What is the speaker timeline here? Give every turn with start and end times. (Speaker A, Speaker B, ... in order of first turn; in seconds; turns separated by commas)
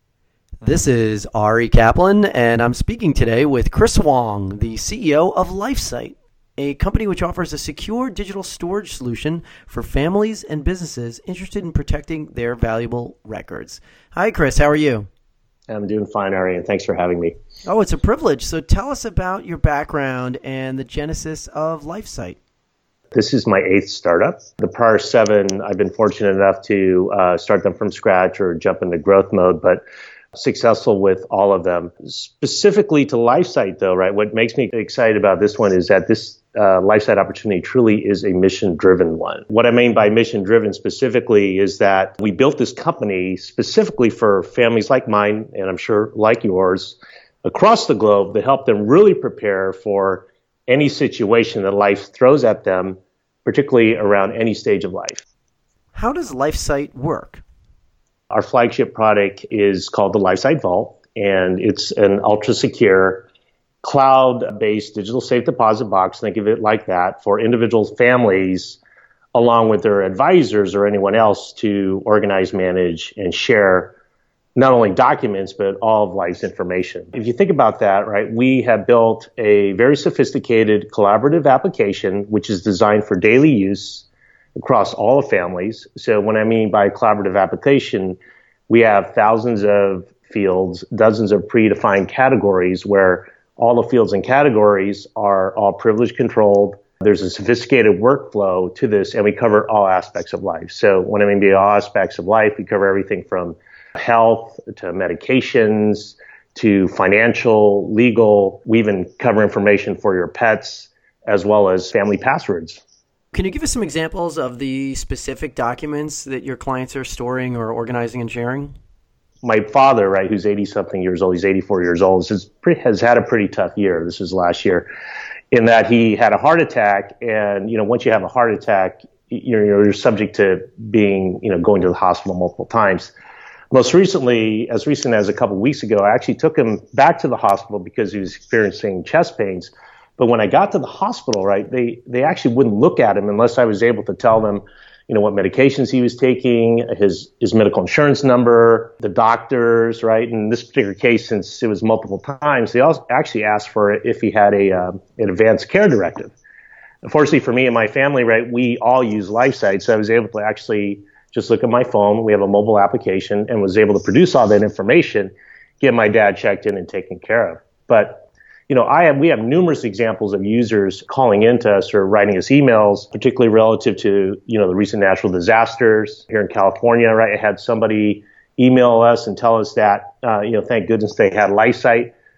Speaker A: 0.6-15.1, Speaker B: 15.7-17.3, Speaker A: 17.6-22.4, Speaker B: 23.1-29.8, Speaker B: 30.3-55.2, Speaker A: 55.9-57.4, Speaker B: 58.3-63.3, Speaker B: 63.8-68.8, Speaker B: 69.3-74.0, Speaker B: 74.5-88.2, Speaker B: 88.7-112.8, Speaker A: 113.3-118.7, Speaker B: 119.4-124.9, Speaker B: 125.5-133.1, Speaker B: 133.7-156.3, Speaker B: 157.0-182.1